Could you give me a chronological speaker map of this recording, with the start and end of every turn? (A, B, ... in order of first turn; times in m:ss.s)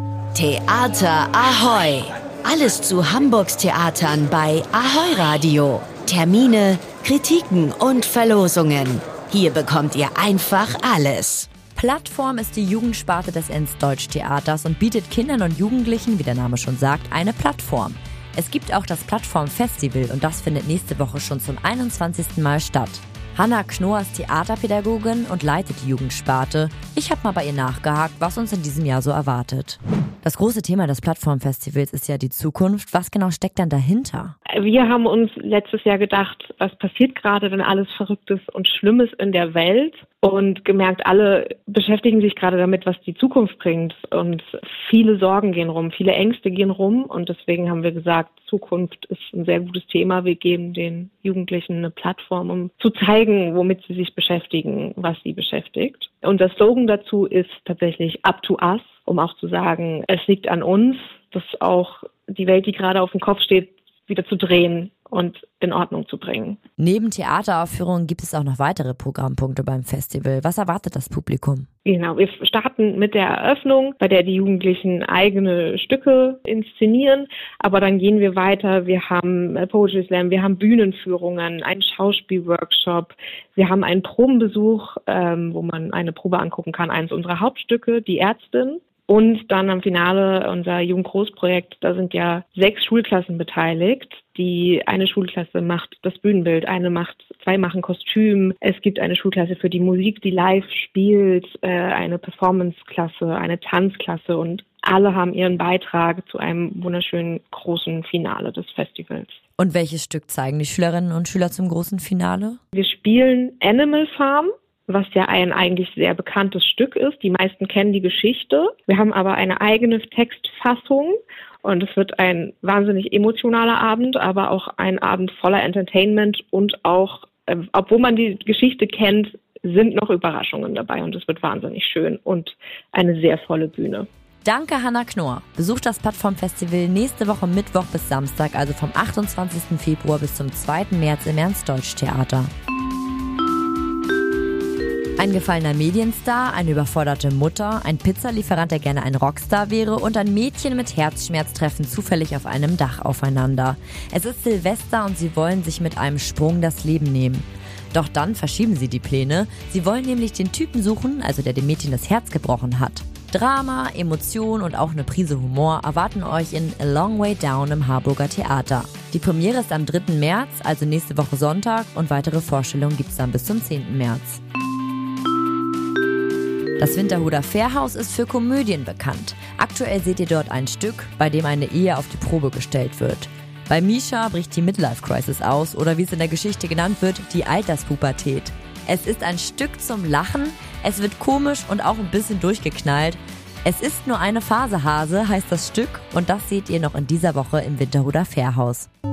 0:00.3-0:11.5 A
0:11.8-0:34.4 B
0:34.5-1:06.6 C
1:06.8-1:11.7 B
1:11.8-1:49.4 C
1:49.6-1:52.6 B
1:52.8-2:14.1 C
2:14.4-2:22.5 B
2:25.2-2:54.4 B
2:56.8-3:18.9 B